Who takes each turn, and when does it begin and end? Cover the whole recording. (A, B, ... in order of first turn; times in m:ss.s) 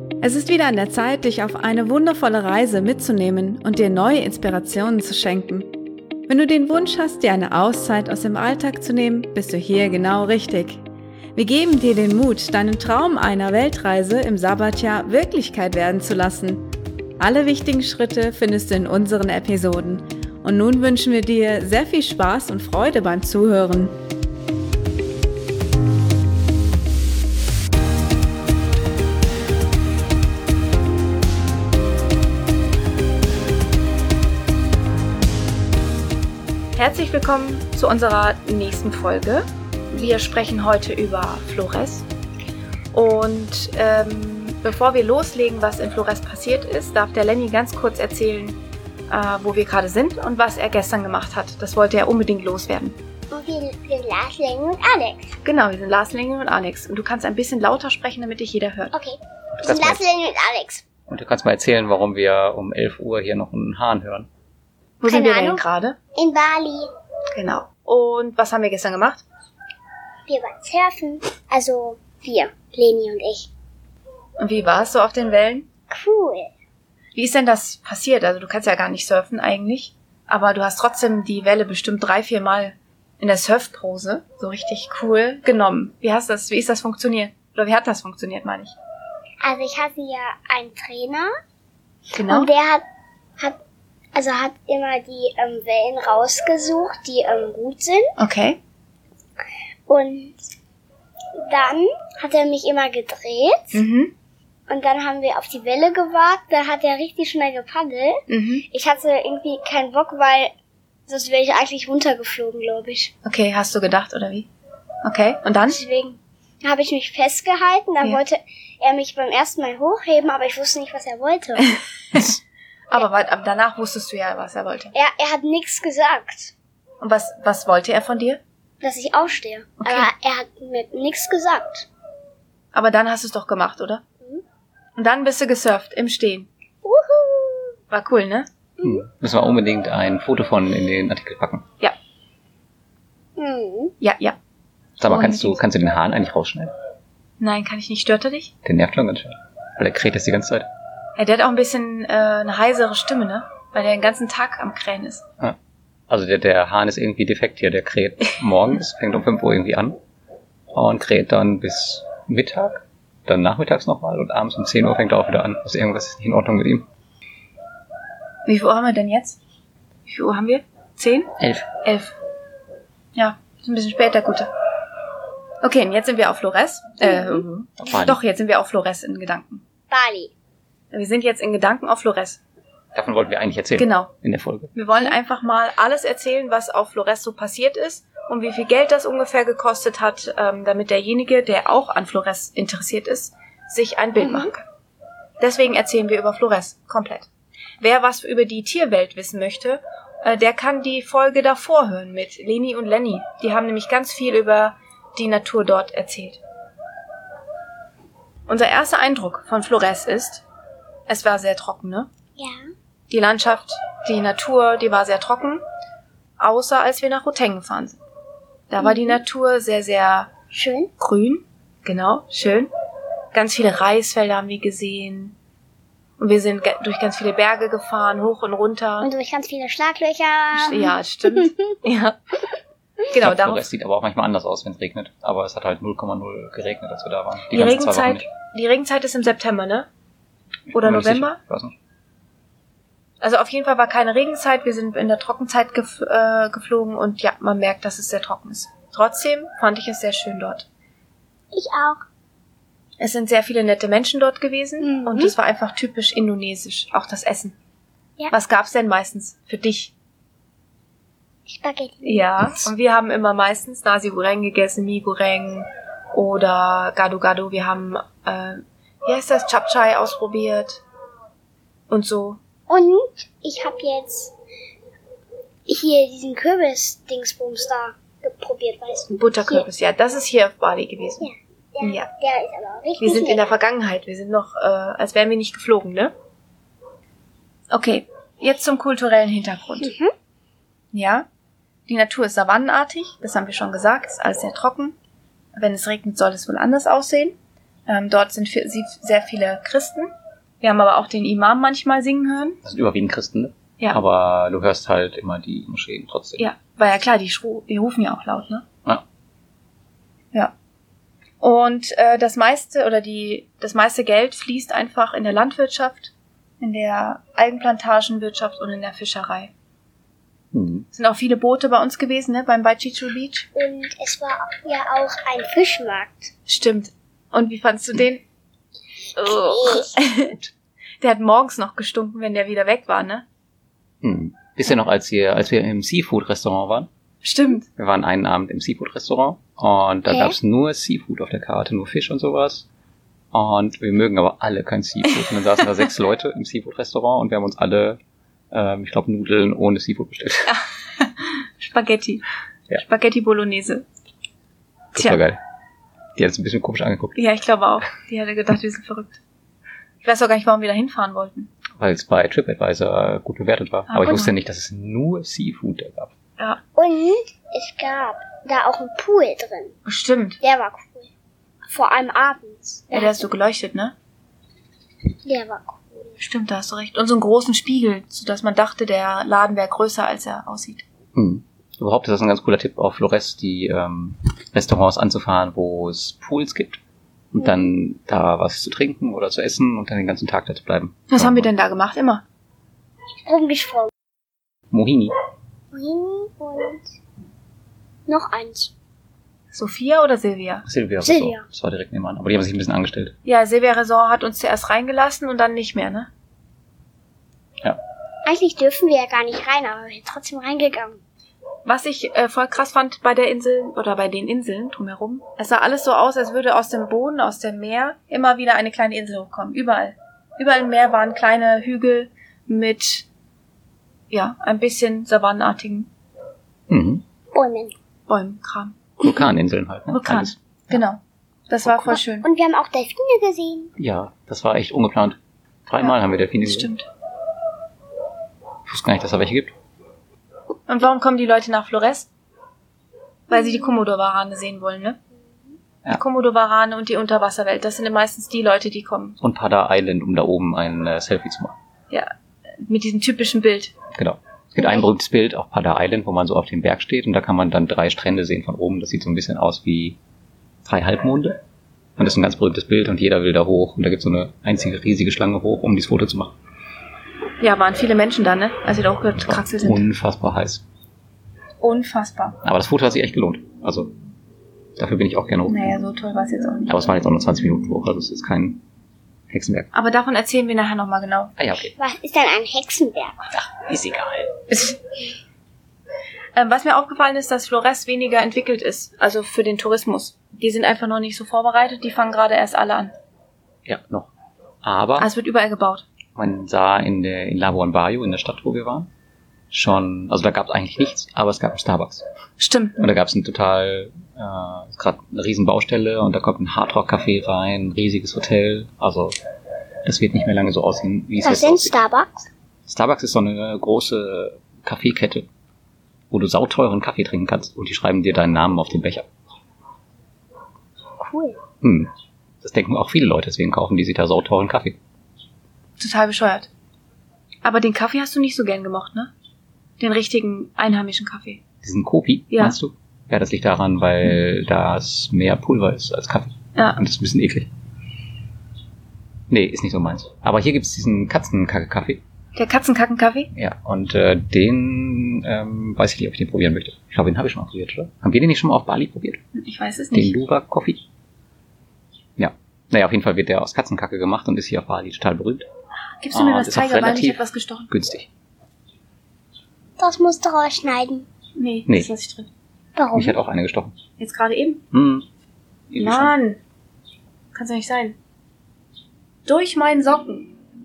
0:00.2-0:05.7 A
0:06.3-0:10.8 A
0:11.4-0:16.6 A
0:17.2-0:23.9 A
0:36.8-0:42.0 A
0:42.9-0:53.0 A
0:53.3-0:55.4 B
0:55.4-0:58.9 A
0:58.9-1:00.8 B
0:59.6-1:00.0 C
1:01.1-1:04.3 C
1:05.0-1:06.0 A
1:05.0-1:05.6 B
1:06.1-1:06.9 B
1:07.3-1:09.2 A
1:10.3-1:13.5 B
1:14.4-1:15.7 A
1:15.9-1:16.5 B
1:17.1-1:28.7 A
1:29.4-1:31.3 B
1:32.1-1:32.5 A
1:32.3-1:32.8 B
1:34.1-1:38.1 B
1:38.2-1:38.6 A
1:39.9-1:40.4 B
1:41.3-1:43.8 B
1:43.7-1:44.1 A
1:44.7-1:50.5 B
1:48.3-1:48.6 A
1:51.1-1:53.1 B
1:53.2-1:54.5 A
1:55.0-1:55.8 A
1:55.7-2:01.8 B
2:02.9-2:04.9 A
2:04.9-2:06.5 B
2:07.0-2:08.4 A
2:08.8-2:11.9 B
2:09.8-2:10.1 A
2:12.7-2:14.0 A
2:15.0-2:16.5 A
2:16.8-2:17.8 B
2:17.9-2:18.5 A
2:18.8-2:19.0 B
2:18.8-2:21.6 C
2:23.4-2:23.9 B
2:24.0-2:24.4 A
2:25.0-2:26.7 C
2:25.1-2:25.6 A
2:27.4-2:28.5 A
2:28.6-2:30.7 C
2:31.2-2:35.2 A
2:36.1-2:40.0 C
2:40.7-2:46.9 C
2:48.4-2:49.4 A
2:50.1-2:52.1 A
2:51.4-2:51.7 C
2:53.2-2:54.5 A
2:55.6-2:59.6 A
2:57.1-2:57.4 B
2:57.8-2:58.2 C
2:59.9-3:00.3 B
3:00.9-3:02.4 A
3:02.9-3:04.7 C
3:03.8-3:04.1 A
3:04.7-3:14.6 A
3:14.2-3:14.5 B
3:15.4-3:17.3 A
3:17.8-3:26.4 A
3:28.5-3:30.4 A
3:31.1-3:32.1 A
3:32.4-3:32.7 B
3:33.1-3:35.6 A
3:36.4-3:38.0 A
3:38.7-3:40.3 A
3:38.8-3:39.2 B
3:40.5-3:40.9 B
3:41.0-3:42.7 A
3:43.3-3:45.3 A
3:46.2-3:49.1 A
3:49.0-3:51.7 B
3:50.5-3:52.4 A
3:53.0-3:53.6 A
3:53.2-3:58.2 C
3:57.5-3:59.9 A
4:00.7-4:01.8 C
4:00.7-4:01.4 A
4:03.2-4:10.7 A
4:11.5-4:12.0 B
4:13.0-4:17.6 A
4:14.8-4:15.3 B
4:18.3-4:19.9 A
4:21.4-4:22.3 B
4:22.0-4:30.8 A
4:31.9-4:32.4 A
4:32.7-4:34.3 B
4:35.7-4:39.6 B
4:39.1-4:41.3 A
4:41.2-4:43.5 B
4:41.8-4:42.1 A
4:43.0-4:46.1 A
4:47.7-4:49.9 A
4:49.8-4:50.1 B
4:50.9-4:51.2 A
4:51.9-4:54.9 A
4:55.5-4:57.4 A
4:57.9-5:02.6 A
5:02.6-5:06.5 C
5:06.4-5:08.6 A
5:11.4-5:19.5 A
5:20.5-5:20.8 C
5:20.9-5:23.5 A
5:23.6-5:26.3 B
5:26.5-5:28.2 A
5:29.1-5:30.4 A
5:29.2-5:29.9 B
5:31.0-5:33.2 A
5:34.0-5:36.9 C
5:37.2-5:37.7 A
5:37.8-5:42.7 C
5:40.1-5:40.4 B
5:43.3-5:48.0 C
5:48.5-5:50.5 C
5:50.5-5:52.2 A
5:52.7-5:53.8 A
5:54.9-5:55.4 C
5:56.1-5:57.2 C
5:57.2-5:59.2 A
6:00.0-6:01.5 A
6:01.8-6:06.1 C
6:03.9-6:04.3 A
6:06.8-6:09.8 B
6:09.8-6:10.4 A
6:10.4-6:11.1 B
6:11.6-6:13.2 B
6:12.9-6:13.9 A
6:15.2-6:16.2 B
6:16.2-6:20.8 A
6:21.1-6:26.8 C
6:27.3-6:31.5 C
6:31.1-6:32.2 A
6:33.2-6:33.9 B
6:34.7-6:35.1 C
6:35.7-6:36.9 B
6:38.1-6:38.7 B
6:39.5-6:40.6 A
6:40.6-6:43.1 C
6:41.0-6:41.4 B
6:43.2-6:46.1 A
6:48.2-6:51.0 B
6:51.6-7:03.1 A
7:04.1-7:05.9 A
7:06.7-7:07.0 C
7:07.3-7:07.7 B
7:08.1-7:08.8 A
7:09.0-7:10.8 C
7:09.9-7:12.3 A
7:11.9-7:13.7 B
7:13.8-7:16.7 C
7:16.4-7:16.8 A
7:18.6-7:19.5 C
7:20.7-7:22.1 A
7:23.3-7:25.0 A
7:25.9-7:29.2 A
7:29.2-7:31.5 C
7:32.6-7:33.7 A
7:33.9-7:40.0 C
7:34.6-7:34.8 A
7:40.6-7:41.4 C
7:42.0-7:46.4 C
7:47.4-7:49.8 A
7:49.2-7:50.6 C
7:51.6-7:52.4 A
7:52.4-7:53.9 C
7:54.8-7:55.7 C
7:55.5-7:56.7 A
7:56.7-7:58.6 C
7:59.3-7:59.7 C
7:59.7-8:01.3 A
8:01.4-8:01.7 C
8:01.8-8:03.3 B
8:03.3-8:04.3 C
8:04.5-8:04.8 A
8:06.4-8:12.9 A
8:13.6-8:14.1 C
8:14.6-8:15.1 C
8:15.0-8:15.8 A
8:16.1-8:18.9 C
8:19.5-8:22.0 C
8:22.4-8:22.8 A
8:22.8-8:29.1 C
8:29.8-8:31.7 C
8:31.2-8:32.3 B
8:32.7-8:35.2 C
8:36.1-8:39.0 C
8:41.0-8:41.4 B
8:41.6-8:41.9 C
8:42.4-8:44.8 C
8:45.8-8:46.5 A
8:47.4-8:49.1 A
8:49.8-8:51.4 A
8:51.6-8:57.5 C
8:52.3-8:52.6 A
8:56.6-8:56.8 A
8:59.3-9:02.0 C
9:02.4-9:03.3 A
9:03.3-9:09.2 C
9:09.3-9:10.1 A
9:09.9-9:10.8 C
9:12.2-9:15.4 C
9:16.0-9:17.7 A
9:16.1-9:18.1 C
9:19.8-9:21.1 B
9:21.4-9:22.3 A
9:22.8-9:23.2 B
9:22.9-9:23.7 C
9:24.0-9:24.6 A
9:24.7-9:25.0 C
9:25.7-9:26.1 C
9:25.8-9:26.4 A
9:27.3-9:28.0 A
9:29.2-9:30.3 A